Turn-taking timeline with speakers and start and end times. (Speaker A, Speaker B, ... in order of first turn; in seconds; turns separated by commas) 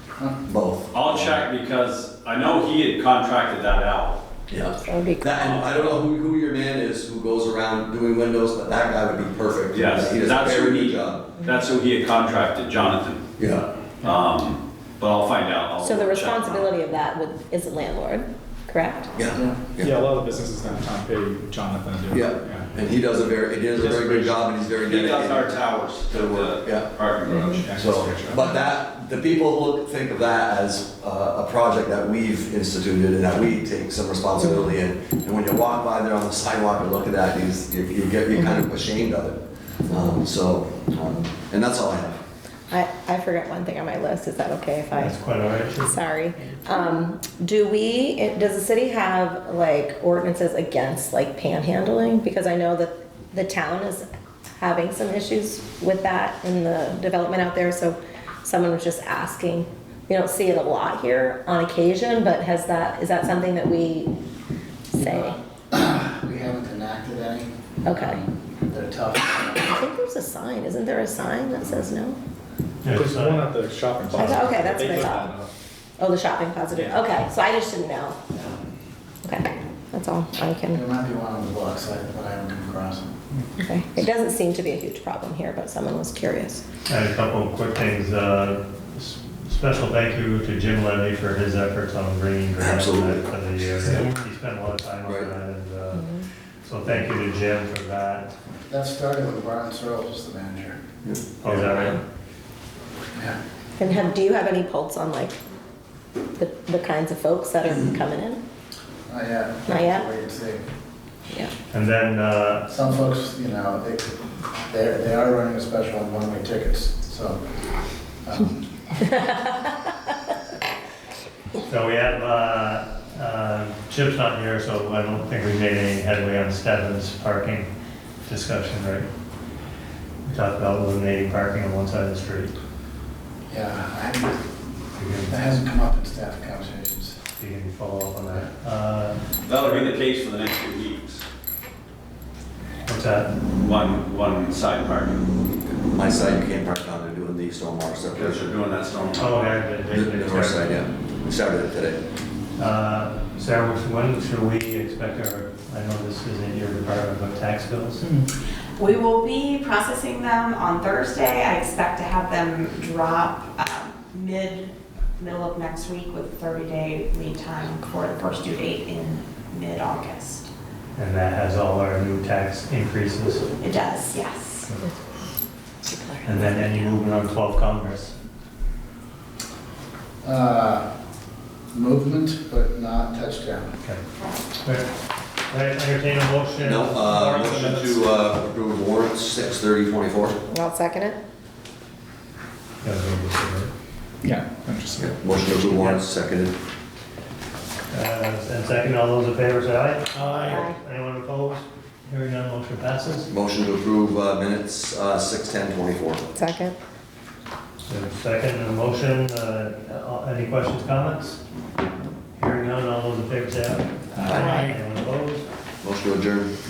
Speaker A: 0.5-1.4, Speaker B: 0.9-4.2, Speaker A: 4.5-11.2, Speaker C: 4.8-5.4, Speaker B: 5.3-5.7, Speaker B: 9.7-13.2, Speaker A: 13.4-13.7, Speaker B: 14.0-16.8, Speaker C: 15.8-19.1, Speaker A: 19.1-20.0, Speaker D: 19.3-19.6, Speaker E: 19.8-22.7, Speaker A: 22.1-26.9, Speaker B: 23.8-27.8, Speaker E: 27.7-28.4, Speaker A: 27.7-42.2, Speaker C: 42.7-45.2, Speaker F: 44.9-46.8, Speaker C: 45.8-54.0, Speaker C: 54.6-64.1, Speaker C: 64.9-65.4, Speaker D: 65.0-69.8, Speaker C: 67.9-68.2, Speaker C: 69.7-72.2, Speaker F: 72.8-73.5, Speaker E: 72.9-75.5, Speaker C: 74.1-75.3, Speaker F: 74.1-74.4, Speaker C: 76.0-78.4, Speaker E: 76.7-77.0, Speaker C: 79.2-80.8, Speaker D: 80.7-83.1, Speaker C: 83.6-86.7, Speaker F: 86.9-96.1, Speaker A: 92.6-93.2, Speaker A: 95.0-95.3, Speaker C: 95.9-96.3, Speaker F: 96.6-98.4, Speaker D: 98.7-100.8, Speaker A: 101.0-101.9, Speaker F: 101.4-102.0, Speaker C: 103.8-105.4, Speaker C: 106.4-108.4, Speaker D: 109.1-110.6, Speaker C: 109.7-110.1, Speaker F: 111.7-112.7, Speaker D: 112.7-117.4, Speaker D: 118.2-118.7, Speaker C: 119.2-119.6, Speaker F: 121.7-127.7, Speaker F: 128.3-129.1, Speaker F: 130.3-132.5, Speaker D: 133.5-134.5, Speaker F: 135.0-135.4, Speaker D: 135.3-137.2, Speaker F: 137.4-139.9, Speaker B: 139.4-141.2, Speaker F: 142.9-143.4, Speaker B: 143.5-145.2, Speaker A: 145.8-148.4, Speaker B: 148.1-149.6, Speaker F: 149.2-150.8, Speaker A: 149.9-152.0, Speaker F: 152.6-158.1, Speaker E: 158.0-158.3, Speaker G: 158.8-170.5, Speaker F: 171.0-173.4, Speaker G: 173.6-174.7, Speaker C: 175.8-176.9, Speaker F: 176.2-178.1, Speaker D: 180.2-180.9, Speaker D: 181.7-183.7, Speaker F: 184.6-184.9, Speaker F: 185.5-188.0, Speaker A: 186.6-190.4, Speaker C: 190.5-191.2, Speaker F: 192.8-193.7, Speaker E: 194.2-195.6, Speaker A: 195.0-196.6, Speaker F: 195.7-196.0, Speaker F: 197.9-203.3, Speaker C: 200.4-200.8, Speaker A: 203.3-206.3, Speaker C: 206.3-206.8, Speaker F: 207.9-211.4, Speaker F: 212.4-215.4, Speaker A: 214.2-214.6, Speaker A: 215.8-216.5